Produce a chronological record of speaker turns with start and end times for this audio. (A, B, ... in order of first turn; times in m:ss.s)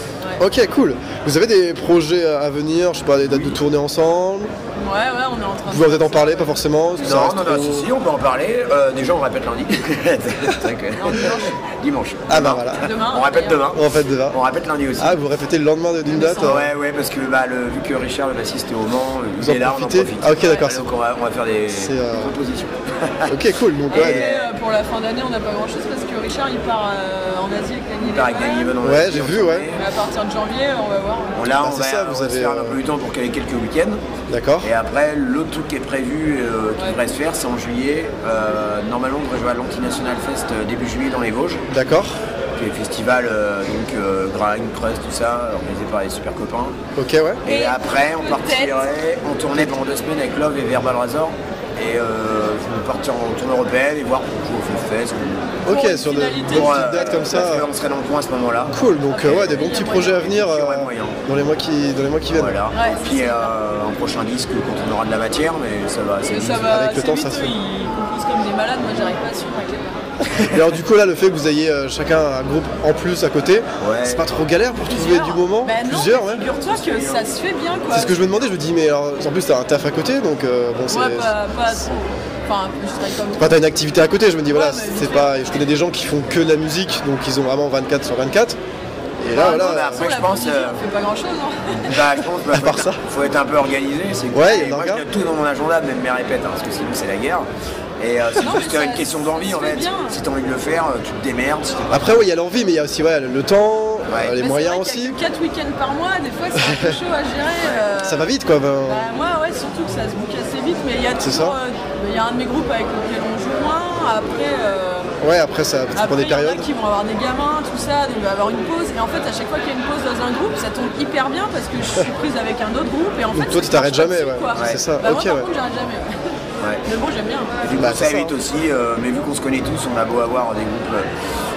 0:00.4-0:04.5 A
0:03.2-0:03.6 B
0:04.8-0:06.6 C
0:05.7-0:07.9 A
0:07.0-0:15.2 B
0:11.0-0:11.6 C
0:12.3-0:12.8 A
0:12.7-0:13.6 C
0:13.7-0:14.4 A
0:15.0-0:16.7 A
0:16.1-0:16.7 C
0:16.4-0:23.3 B
0:19.4-0:20.9 A
0:21.7-0:22.4 A
0:23.3-0:24.3 A
0:23.9-0:28.8 C
0:23.9-0:24.5 B
0:28.0-0:29.8 B
0:28.8-0:29.7 A
0:29.7-0:31.6 C
0:31.4-0:34.0 B
0:31.5-0:32.8 A
0:34.3-0:34.7 A
0:34.6-0:41.6 B
0:41.7-0:42.2 A
0:42.6-0:46.8 B
0:47.0-0:47.4 A
0:47.4-0:55.7 B
0:47.5-0:48.8 C
0:55.7-0:57.0 C
0:55.7-0:57.7 A
0:56.5-0:58.8 B
0:58.7-1:02.6 A
0:59.1-1:00.2 C
1:00.0-1:01.2 B
1:02.3-1:06.8 B
1:02.7-1:03.6 C
1:06.2-1:10.0 C
1:06.6-1:07.6 A
1:10.3-1:10.5 B
1:10.5-1:16.4 A
1:13.8-1:14.2 B
1:14.8-1:18.2 C
1:16.4-1:18.5 B
1:17.9-1:22.0 A
1:20.9-1:23.6 C
1:23.4-1:28.6 A
1:24.5-1:25.7 C
1:29.2-1:30.1 A
1:29.3-1:32.0 C
1:29.4-1:30.8 B
1:31.8-1:37.5 B
1:32.5-1:33.0 A
1:34.3-1:35.0 A
1:38.0-1:42.3 B
1:38.4-1:40.2 C
1:41.9-1:45.2 A
1:44.1-1:44.4 B
1:44.3-1:48.3 C
1:46.6-1:47.0 A
1:47.6-1:47.9 B
1:48.0-1:49.1 A
1:48.8-1:55.1 C
1:51.2-1:51.6 A
1:55.2-1:56.7 A
1:56.0-2:07.6 C
2:03.3-2:05.5 A
2:04.6-2:04.8 B
2:07.6-2:11.1 B
2:07.8-2:08.4 A